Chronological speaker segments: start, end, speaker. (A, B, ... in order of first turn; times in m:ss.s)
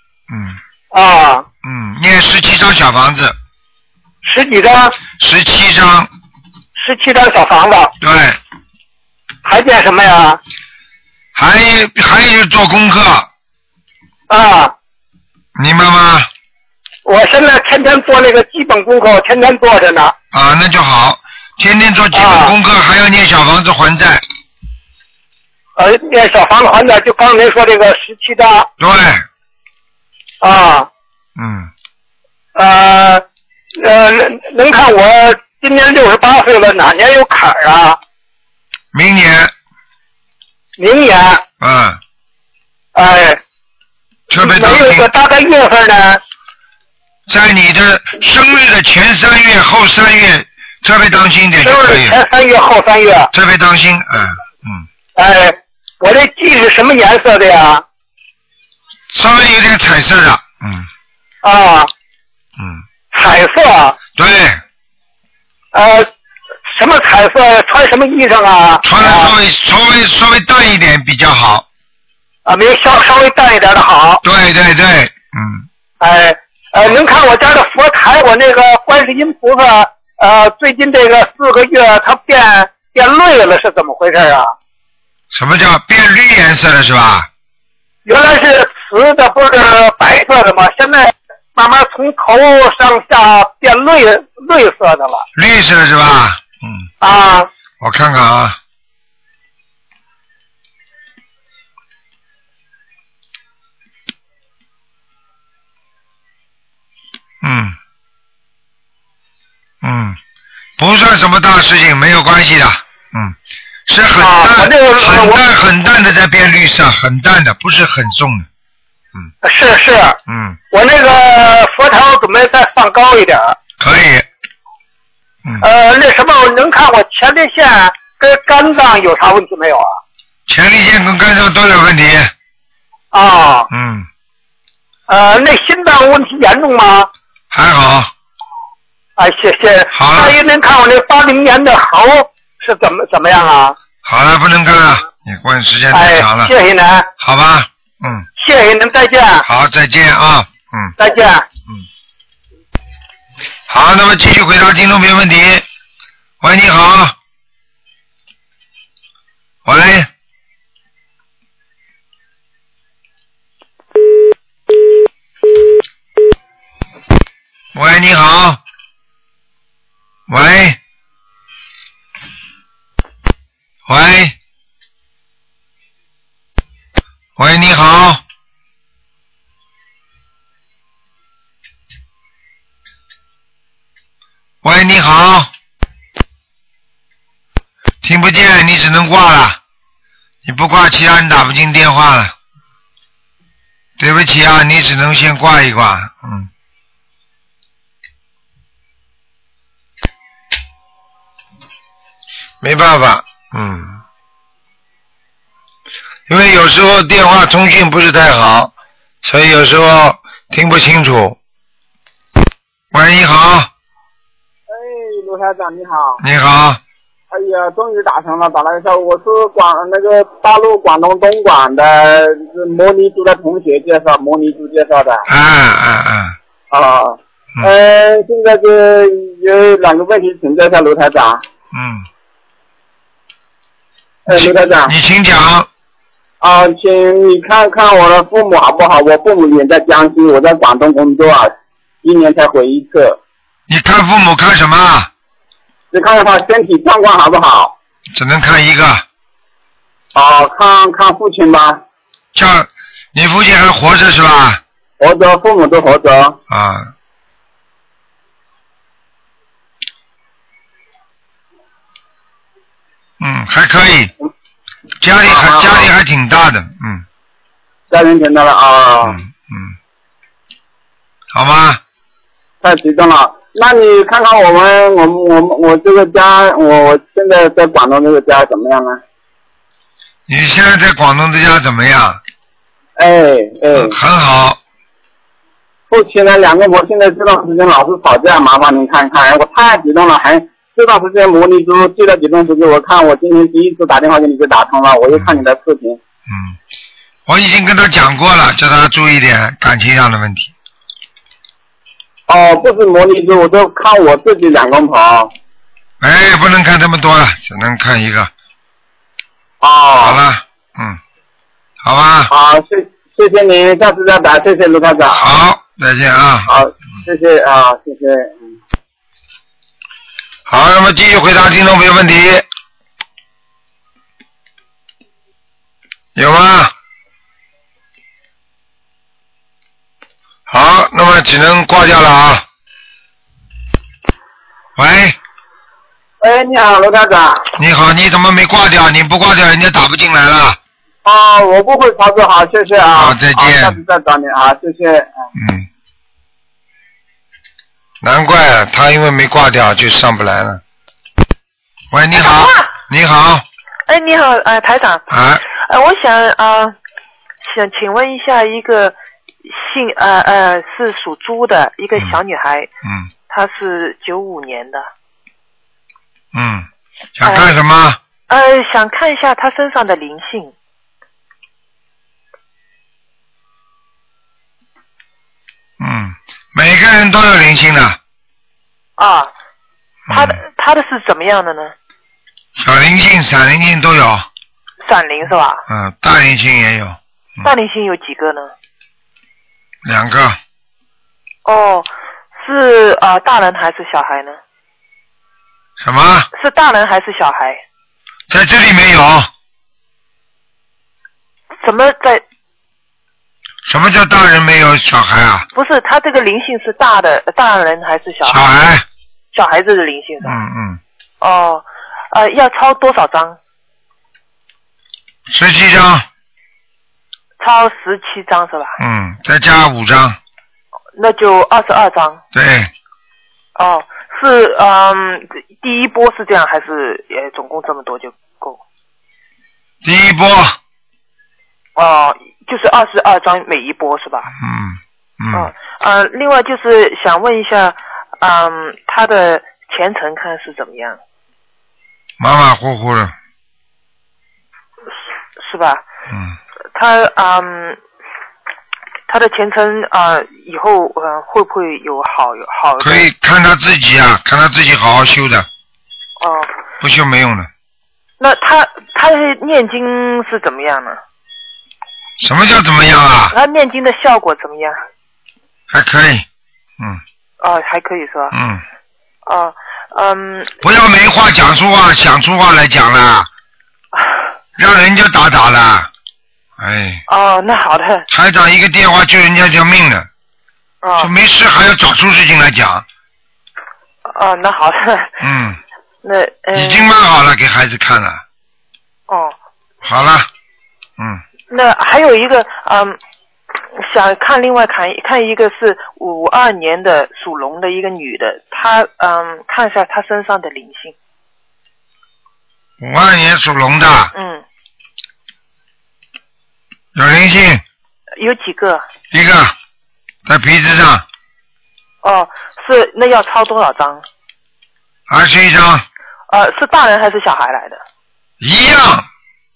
0:00.3-0:00.6 A
0:00.9-0:01.4 B
0:01.6-0:03.3 A
0:04.2-0:05.0 B
0:05.1-0:06.1 A
0:06.8-0:07.9 B
0:08.0-0:08.4 A
0:09.4-0:10.4 B
0:11.3-0:13.3 A
0:14.3-0:14.7 B
0:15.6-0:16.3 A
0:17.0-0:20.1 B
0:20.3-0:24.2 A
0:22.1-0:22.5 B
0:25.8-0:28.7 B
0:28.8-0:29.2 A
0:30.4-0:30.9 B
0:31.4-0:31.7 A
0:32.5-0:33.2 B
0:33.8-0:38.0 B
0:38.9-0:39.5 A
0:40.8-0:41.4 B
0:41.6-0:42.0 A
0:42.9-0:43.4 B
0:44.3-0:45.0 A
0:44.3-0:46.2 B
0:47.3-0:52.2 A
0:51.6-0:53.3 B
0:53.3-0:54.8 A
0:55.2-0:57.8 B
0:59.1-1:00.9 A
1:01.4-1:01.9 B
1:02.6-1:02.8 A
1:03.1-1:04.0 B
1:04.2-1:04.6 A
1:05.7-1:06.1 B
1:06.7-1:09.3 B
1:08.8-1:11.6 A
1:12.4-1:14.2 B
1:14.2-1:15.6 A
1:16.0-1:24.5 B
1:25.3-1:27.3 A
1:28.0-1:35.2 B
1:35.3-1:36.9 A
1:37.0-1:37.5 B
1:37.8-1:38.6 A
1:47.4-1:47.8 A
1:49.8-1:50.2 A
1:50.8-1:53.4 A
1:53.9-1:58.5 A
1:54.2-1:55.4 B
1:59.4-2:00.2 B
2:00.3-2:00.6 A
2:00.7-2:03.5 B
2:03.8-2:04.2 A
2:05.6-2:10.0 B
2:10.5-2:12.3 A
2:13.1-2:13.7 B
2:13.7-2:14.1 A
2:15.1-2:17.1 B
2:17.5-2:18.1 A
2:19.2-2:23.7 B
2:19.9-2:20.3 A
2:24.0-2:26.5 A
2:25.9-2:27.1 B
2:27.2-2:28.2 A
2:28.4-2:29.4 B
2:29.4-2:31.0 A
2:31.0-2:31.4 B
2:33.7-2:35.6 A
2:36.4-2:37.2 A
2:39.6-2:40.1 A
2:47.7-2:48.6 A
2:50.3-2:50.8 A
2:53.9-2:54.3 A
2:57.4-2:58.2 A
3:04.6-3:05.5 A
3:08.0-3:09.6 A
3:10.4-3:12.3 A
3:14.0-3:16.5 A
3:22.6-3:24.0 A
3:26.3-3:28.7 A
3:29.2-3:31.4 A
3:32.9-3:33.7 A
3:34.7-3:36.2 C
3:36.2-3:36.8 A
3:37.3-3:45.2 C
3:45.3-3:46.4 A
3:46.7-3:51.4 C
3:51.7-3:52.0 A
3:54.3-3:54.9 C
3:54.3-3:55.7 A
3:56.4-4:03.2 C
4:03.7-4:05.1 A
4:05.9-4:07.7 C
4:08.1-4:09.0 A
4:10.1-4:11.8 C
4:12.3-4:14.6 A
4:15.0-4:16.4 C
4:16.5-4:16.9 A
4:23.2-4:24.1 A
4:25.0-4:27.0 A
4:25.2-4:25.9 C
4:27.9-4:29.2 C
4:29.0-4:29.7 A
4:31.3-4:31.8 A
4:32.6-4:39.0 C
4:40.3-4:42.2 A
4:43.0-4:43.9 C
4:43.7-4:44.6 A
4:45.9-4:56.0 C
4:55.1-4:55.4 A
4:56.3-4:56.6 A
4:57.3-5:00.5 A
5:02.3-5:05.3 C
5:06.0-5:08.3 A
5:09.6-5:10.2 C
5:10.0-5:11.0 A
5:11.8-5:12.3 A
5:12.3-5:15.3 C
5:15.1-5:16.5 A
5:16.5-5:18.6 C
5:20.5-5:22.4 A
5:26.1-5:26.7 A
5:30.5-5:32.4 A
5:34.8-5:35.2 A
5:36.2-5:37.4 C
5:37.6-5:40.6 A
5:41.0-5:45.2 C
5:43.0-5:43.8 A
5:45.4-5:45.7 A
5:48.0-5:50.6 A
5:51.9-5:53.4 A
5:52.2-5:52.7 D
5:53.9-5:56.8 D
5:55.1-5:55.4 A
5:57.4-6:02.7 D
6:02.8-6:03.1 A
6:03.3-6:04.9 D
6:06.3-6:08.0 A
6:07.2-6:07.5 D
6:08.3-6:10.5 D
6:15.8-6:18.0 A
6:19.0-6:19.3 D
6:20.1-6:20.4 A
6:20.1-6:21.7 D
6:22.6-6:24.2 A
6:24.8-6:25.6 D
6:25.7-6:27.5 A
6:27.4-6:28.5 D
6:29.8-6:30.4 A
6:31.4-6:34.4 D
6:35.8-6:36.3 A
6:36.3-6:37.6 D
6:38.3-6:39.3 A
6:41.6-6:42.2 D
6:43.6-6:45.4 A
6:45.5-6:48.4 D
6:48.2-6:48.8 A
6:49.3-6:50.4 D
6:50.2-6:50.8 A
6:51.2-6:53.4 D
6:55.3-6:56.1 A
6:57.4-6:58.8 D
6:58.8-7:00.2 A
7:01.0-7:02.2 D
7:02.3-7:02.7 A
7:03.6-7:08.6 D
7:09.8-7:10.6 A
7:11.8-7:14.3 D
7:14.4-7:15.5 A
7:15.3-7:21.0 D
7:22.2-7:23.1 A
7:25.4-7:25.8 D
7:26.1-7:26.4 A
7:26.7-7:27.8 D
7:29.1-7:33.1 D
7:32.8-7:35.5 A
7:36.2-7:36.5 D
7:36.8-7:37.5 A
7:38.2-7:41.0 D
7:42.2-7:43.3 A
7:43.3-7:44.8 D
7:45.7-7:46.2 A
7:47.4-7:48.4 D
7:48.3-7:48.6 A
7:49.2-7:50.5 D
7:50.6-7:53.3 A
7:54.6-7:55.9 A
7:56.6-7:57.0 A
7:57.1-7:58.1 D
7:58.1-8:00.1 A
8:00.8-8:01.1 D
8:01.0-8:02.8 A
8:04.0-8:05.2 D
8:05.2-8:05.6 A
8:06.0-8:06.9 D
8:06.5-8:08.2 A
8:09.1-8:09.3 D
8:09.8-8:10.3 A
8:11.5-8:13.0 D
8:13.8-8:20.9 D
8:22.8-8:24.1 A
8:24.1-8:24.4 D
8:26.9-8:27.6 A
8:28.2-8:28.8 D
8:29.1-8:29.5 A
8:30.2-8:31.0 A
8:32.0-8:34.0 D
8:35.1-8:35.8 A
8:36.3-8:37.8 D
8:38.4-8:39.1 A